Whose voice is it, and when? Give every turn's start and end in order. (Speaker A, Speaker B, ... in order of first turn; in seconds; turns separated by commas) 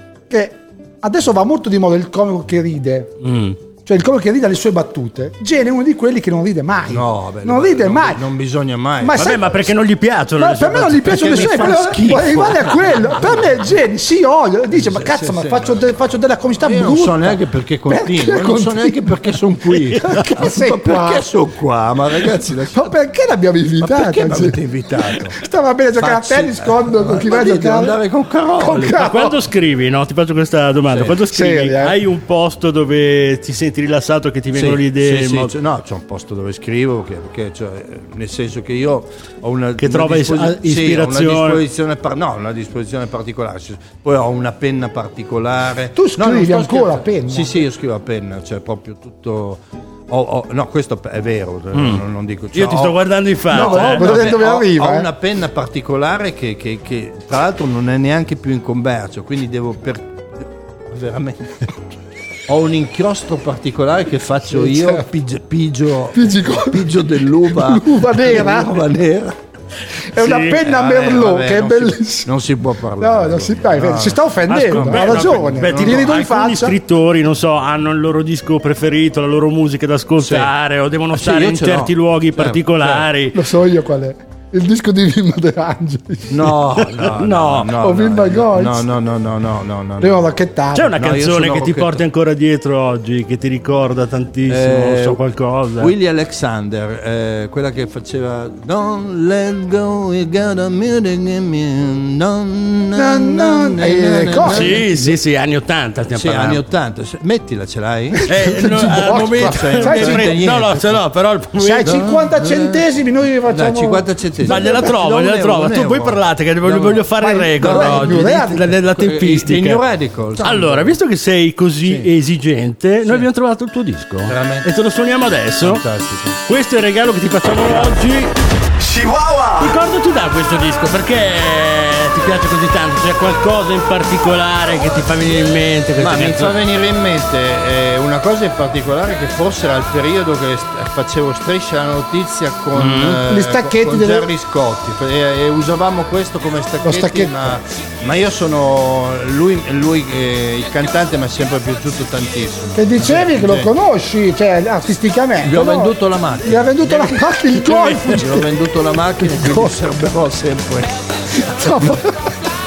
Speaker A: 0.3-3.1, Speaker B: 3.2-3.6, Speaker A: 3.9-8.2, Speaker C: 6.9-9.3, Speaker A: 9.0-9.5, Speaker B: 9.2-11.8, Speaker A: 10.4-19.4, Speaker C: 11.0-13.6, Speaker C: 14.7-15.9, Speaker C: 16.6-23.0, Speaker B: 19.9-20.3, Speaker A: 20.1-21.3, Speaker A: 22.7-28.0, Speaker C: 23.8-25.4, Speaker C: 25.9-29.1, Speaker A: 28.6-29.4, Speaker B: 29.0-35.5, Speaker C: 30.9-31.2, Speaker A: 31.3-32.0, Speaker C: 34.5-61.6, Speaker B: 39.8-41.6, Speaker A: 46.0-47.5, Speaker B: 51.7-52.0, Speaker B: 52.5-54.4, Speaker A: 53.5-55.1, Speaker C: 62.5-69.4, Speaker A: 64.5-65.1, Speaker A: 66.1-68.9, Speaker A: 70.1-72.4, Speaker B: 70.2-70.7, Speaker C: 70.6-76.2, Speaker A: 73.0-76.8, Speaker B: 74.5-83.4, Speaker C: 80.2-80.5, Speaker C: 81.1-83.1, Speaker A: 83.3-86.5, Speaker C: 86.3-90.3, Speaker B: 86.8-87.7, Speaker A: 87.8-88.9, Speaker A: 90.0-91.0, Speaker B: 90.8-95.9, Speaker C: 90.9-92.0, Speaker C: 94.5-95.2, Speaker C: 95.8-104.8, Speaker A: 103.0-105.1, Speaker B: 104.4-106.6, Speaker C: 106.1-111.0, Speaker A: 108.1-110.4, Speaker B: 108.3-112.0, Speaker A: 111.6-115.0, Speaker C: 111.8-112.8, Speaker C: 113.5-118.4, Speaker B: 114.5-119.8, Speaker A: 117.2-118.8, Speaker C: 118.9-121.0, Speaker B: 120.4-125.8, Speaker C: 121.8-122.1, Speaker C: 124.3-124.7, Speaker C: 125.6-126.4, Speaker B: 126.5-128.3, Speaker C: 128.8-129.5, Speaker B: 129.5-136.5, Speaker C: 136.0-153.7, Speaker B: 142.7-143.2, Speaker A: 143.3-144.3, Speaker A: 146.8-147.6, Speaker A: 152.8-158.5, Speaker C: 155.4-161.0, Speaker A: 159.2-159.8, Speaker A: 161.4-162.3